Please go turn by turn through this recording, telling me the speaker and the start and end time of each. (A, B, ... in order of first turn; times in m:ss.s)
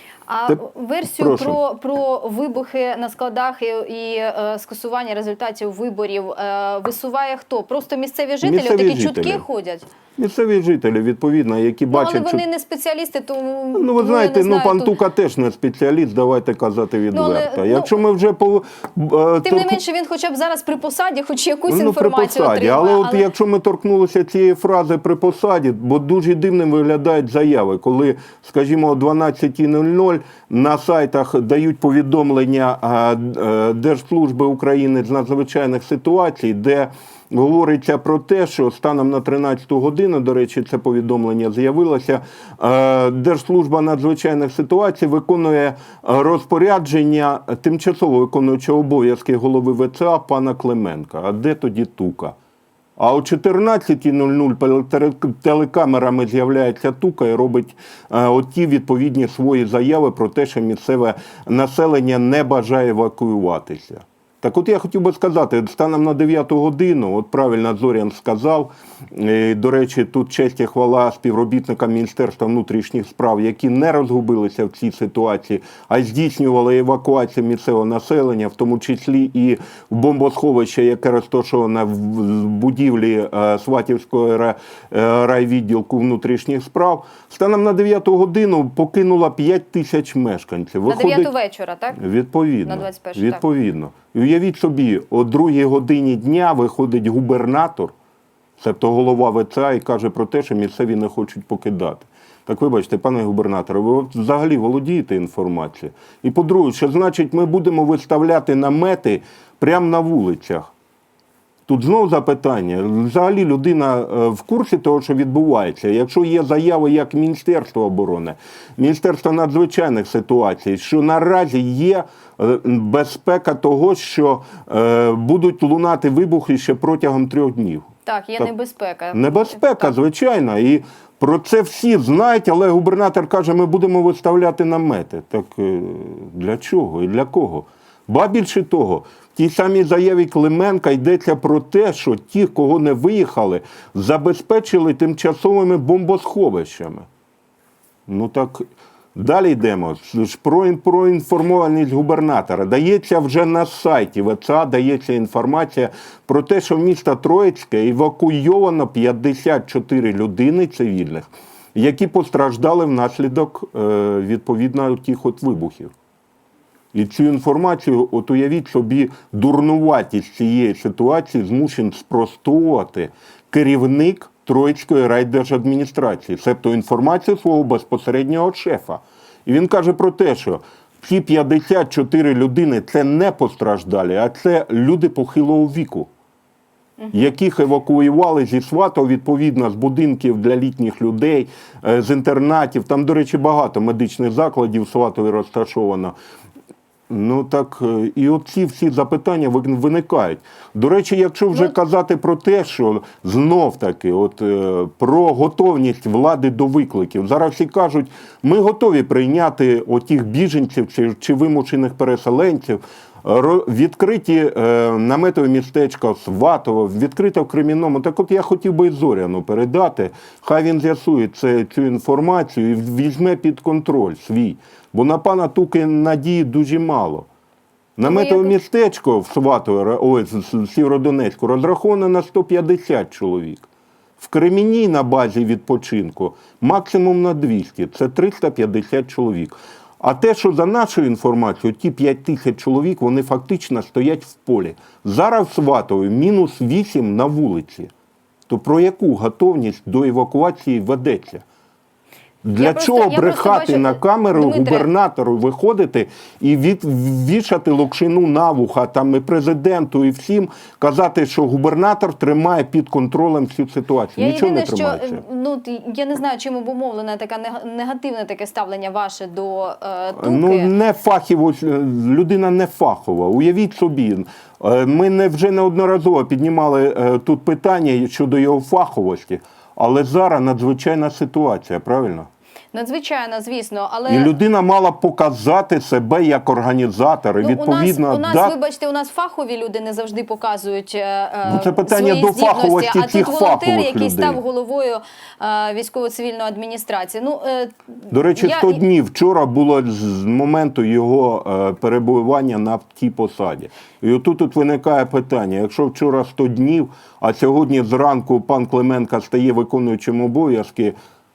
0:00.3-0:09.9 A
0:00.5-0:01.6 B
0:08.4-0:09.4 B
0:10.2-0:12.4 B
0:11.9-0:14.9 A
0:13.7-0:19.8 B
0:17.1-0:18.0 A
0:19.4-0:23.3 A
0:21.7-0:52.4 B
0:53.0-1:31.3 B
1:30.9-1:32.0 A
1:32.0-1:37.9 B
1:32.6-1:33.4 A
1:38.6-1:50.7 B
1:51.7-2:08.5 B
2:08.1-2:09.9 A
2:09.1-2:27.1 B
2:28.1-2:28.6 B
2:29.2-2:45.9 B
2:46.9-3:06.1 B
3:07.0-3:07.3 A
3:07.1-3:16.2 B
3:17.1-3:47.3 B
3:48.0-3:53.7 B
3:48.0-3:48.6 A
3:54.2-4:07.9 B
4:08.5-4:11.4 B
4:12.4-4:25.2 B
4:12.6-4:14.9 A
4:24.2-4:30.7 A
4:30.2-4:42.3 B
4:42.7-4:44.3 A
4:44.1-4:48.6 B
4:47.4-4:58.8 A
4:51.4-4:54.4 B
4:58.1-5:11.0 B